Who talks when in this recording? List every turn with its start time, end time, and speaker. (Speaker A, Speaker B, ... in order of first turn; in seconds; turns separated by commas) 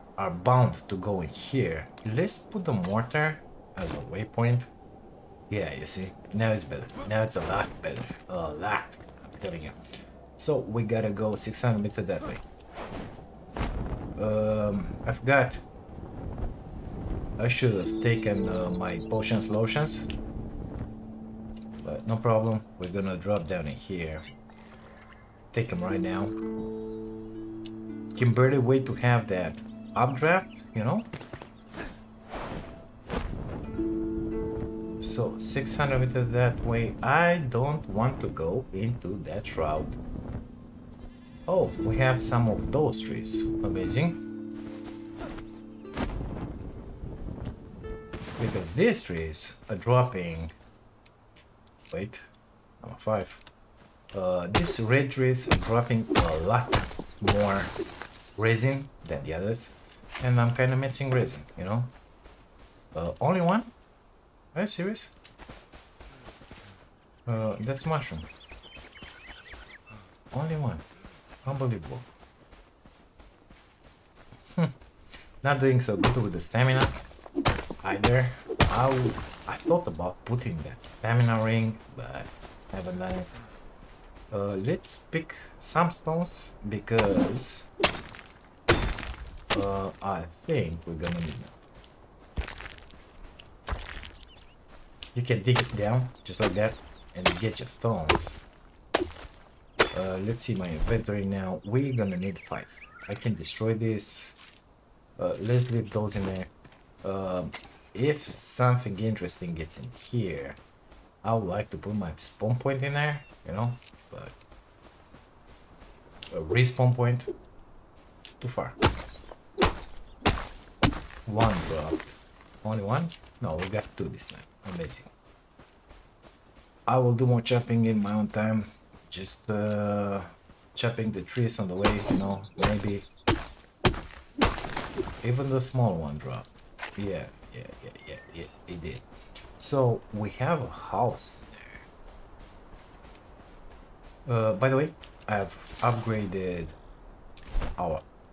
Speaker A: 0.2-4.7, Speaker A: 5.5-9.8, Speaker A: 10.4-12.4, Speaker A: 14.2-15.6, Speaker A: 17.4-20.1, Speaker A: 21.8-24.3, Speaker A: 25.5-26.4, Speaker A: 28.1-31.1, Speaker A: 35.0-40.0, Speaker A: 41.5-44.2, Speaker A: 48.4-50.5, Speaker A: 51.9-52.2, Speaker A: 52.8-53.4, Speaker A: 54.1-57.7, Speaker A: 58.4-61.9, Speaker A: 62.9-63.7, Speaker A: 64.5-65.1, Speaker A: 67.2-68.3, Speaker A: 70.3-70.8, Speaker A: 71.4-72.1, Speaker A: 75.4-77.0, Speaker A: 77.8-83.3, Speaker A: 84.3-87.7, Speaker A: 89.5-91.5, Speaker A: 95.1-98.4, Speaker A: 99.9-104.4, Speaker A: 105.2-106.5, Speaker A: 107.0-110.6, Speaker A: 111.2-114.3, Speaker A: 116.3-117.3, Speaker A: 118.4-118.8, Speaker A: 121.2-125.1, Speaker A: 126.9-133.1, Speaker A: 135.2-139.0, Speaker A: 139.6-141.8, Speaker A: 144.2-146.8, Speaker A: 147.8-148.0